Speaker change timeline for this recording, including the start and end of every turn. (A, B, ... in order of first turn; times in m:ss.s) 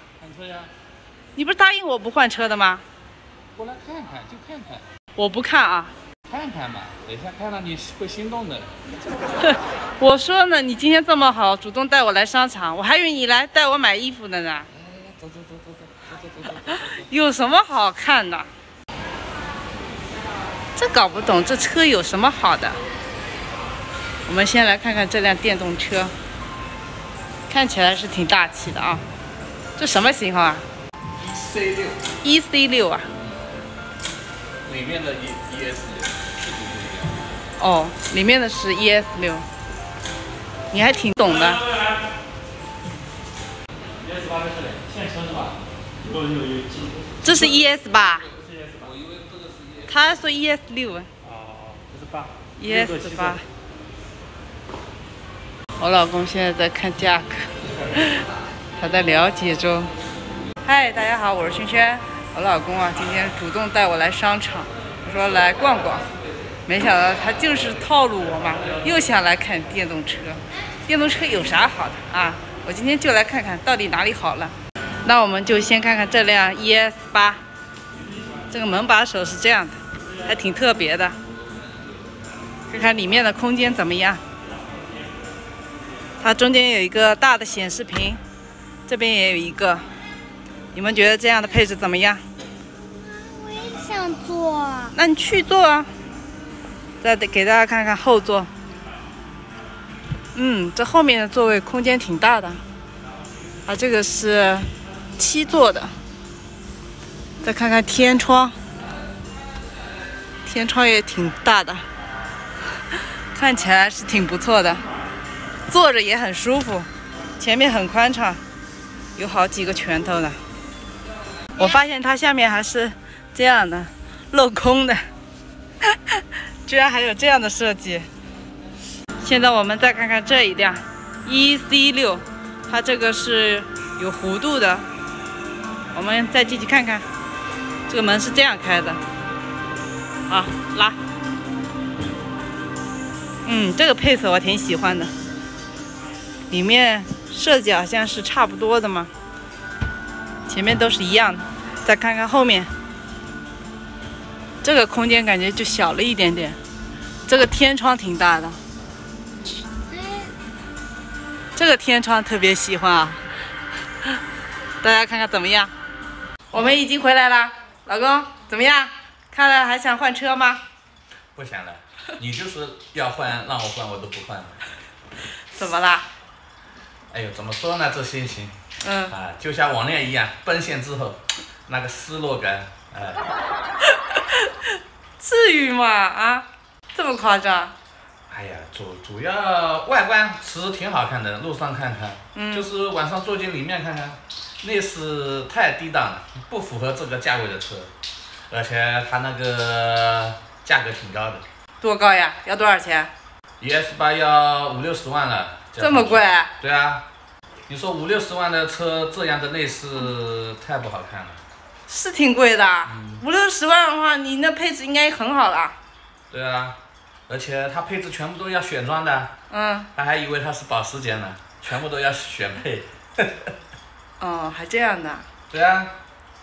0:00.2-0:00.7 A
0:01.3-0:02.8 B
0:03.6-0:04.8 A
0:05.2-0:05.9 B
0:06.3-0:08.8 A
0:09.4-0:14.7 B
0:14.7-0:17.1 A
0:16.7-0:18.5 B
0:20.8-0:22.8 B
0:24.2-0:26.1 B
0:27.5-0:29.0 B
0:29.8-0:30.6 B
0:31.2-0:32.0 A
0:32.2-0:33.1 B
0:34.6-0:37.2 A
0:37.6-0:39.4 B
0:40.7-0:41.7 B
0:44.1-0:45.5 C
0:46.1-0:46.9 C
0:47.2-0:48.3 B
0:48.8-0:49.8 A
0:49.8-0:51.1 B
0:51.6-0:52.2 C
0:52.6-0:53.4 B
0:55.8-0:58.2 B
0:58.8-0:59.9 B
1:00.6-1:06.0 B
1:06.6-1:17.4 B
1:18.5-1:21.2 B
1:22.7-1:24.2 B
1:26.2-1:28.2 B
1:28.9-1:29.8 B
1:30.7-1:32.2 B
1:33.0-1:34.9 D
1:34.9-1:35.9 B
1:37.0-1:38.5 B
1:40.3-1:42.6 B
1:43.6-1:45.9 B
1:47.4-1:48.6 B
1:50.4-1:51.8 B
1:53.3-1:54.8 B
1:55.7-1:58.4 B
1:59.2-2:00.4 B
2:01.6-2:05.0 B
2:05.8-2:08.1 B
2:09.2-2:14.8 B
2:15.9-2:17.0 B
2:17.9-2:19.0 B
2:20.3-2:21.0 B
2:23.4-2:25.1 B
2:26.5-2:29.1 B
2:30.5-2:32.7 B
2:34.6-2:36.6 B
2:37.3-2:38.6 B
2:39.9-2:40.3 D
2:41.5-2:43.2 B
2:44.8-2:45.7 B
2:46.5-2:50.6 B
2:51.3-2:54.6 A
2:55.5-2:56.1 B
2:57.1-3:03.2 A
2:58.8-2:59.1 B
3:03.8-3:07.7 B
3:08.3-3:17.9 A
3:12.3-3:12.7 B
3:18.5-3:21.4 A
3:21.8-3:23.1 B
3:23.6-3:27.0 A
3:25.8-3:26.5 B
3:27.7-3:31.4 A
3:31.9-3:35.8 B
3:32.8-3:33.2 A
3:36.3-3:36.8 A
3:37.3-3:39.3 A
3:39.5-3:39.9 B
3:39.9-3:43.5 A
3:44.2-3:45.3 B
3:45.5-3:45.9 A